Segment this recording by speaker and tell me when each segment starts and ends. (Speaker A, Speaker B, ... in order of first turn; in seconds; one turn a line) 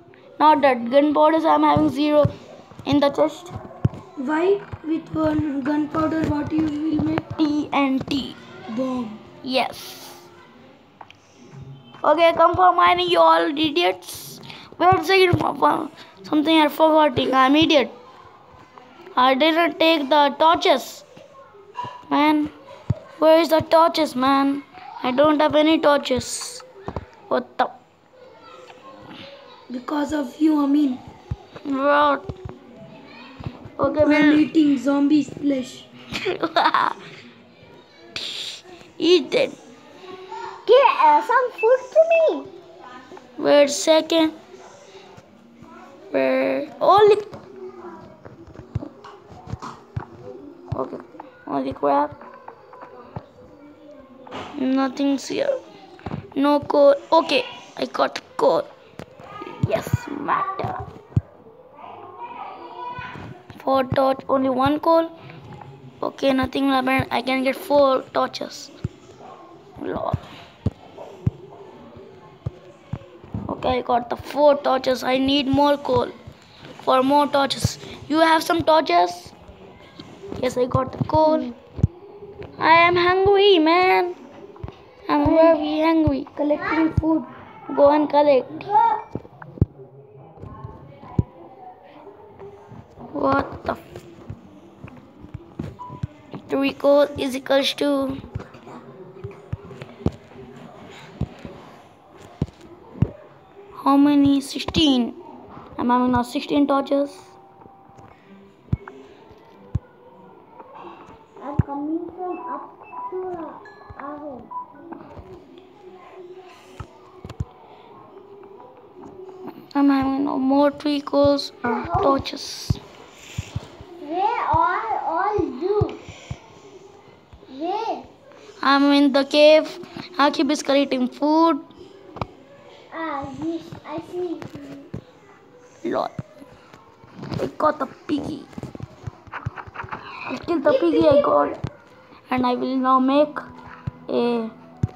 Speaker A: 0.4-2.3
Speaker A: 2.9-3.5
Speaker B: 4.2-7.3
Speaker A: 7.4-8.4
Speaker B: 8.7-9.2
Speaker A: 9.4-10.2
Speaker A: 12.0-17.9
Speaker A: 19.1-21.0
Speaker A: 22.1-22.5
Speaker A: 23.2-26.6
Speaker A: 27.3-27.7
Speaker B: 29.7-31.0
Speaker A: 31.6-32.3
Speaker A: 33.8-34.4
Speaker B: 34.0-35.9
Speaker A: 36.1-37.0
Speaker A: 38.2-38.5
Speaker A: 39.0-39.6
Speaker C: 40.6-42.5
Speaker A: 43.4-44.3
Speaker A: 46.1-47.3
Speaker A: 50.7-52.1
Speaker A: 54.5-55.6
Speaker A: 56.4-58.7
Speaker A: 59.4-60.8
Speaker A: 63.5-65.1
Speaker A: 66.0-68.7
Speaker A: 69.8-70.2
Speaker A: 73.5-76.1
Speaker A: 76.8-79.3
Speaker A: 80.4-81.5
Speaker A: 82.6-84.2
Speaker A: 85.1-86.3
Speaker B: 85.2-85.6
Speaker B: 86.3-87.3
Speaker C: 86.5-86.9
Speaker A: 87.7-88.7
Speaker C: 88.5-89.0
Speaker A: 93.1-93.8
Speaker A: 96.5-98.2
Speaker A: 103.8-105.2
Speaker A: 105.8-107.3
Speaker C: 111.4-114.5
Speaker A: 119.7-122.8
Speaker C: 121.6-122.2
Speaker C: 124.0-126.0
Speaker C: 127.5-128.1
Speaker A: 128.6-131.6
Speaker C: 132.9-134.9
Speaker A: 135.8-136.1
Speaker A: 137.4-138.5
Speaker A: 140.3-141.6
Speaker C: 140.5-141.6
Speaker A: 142.3-143.4
Speaker A: 144.1-144.5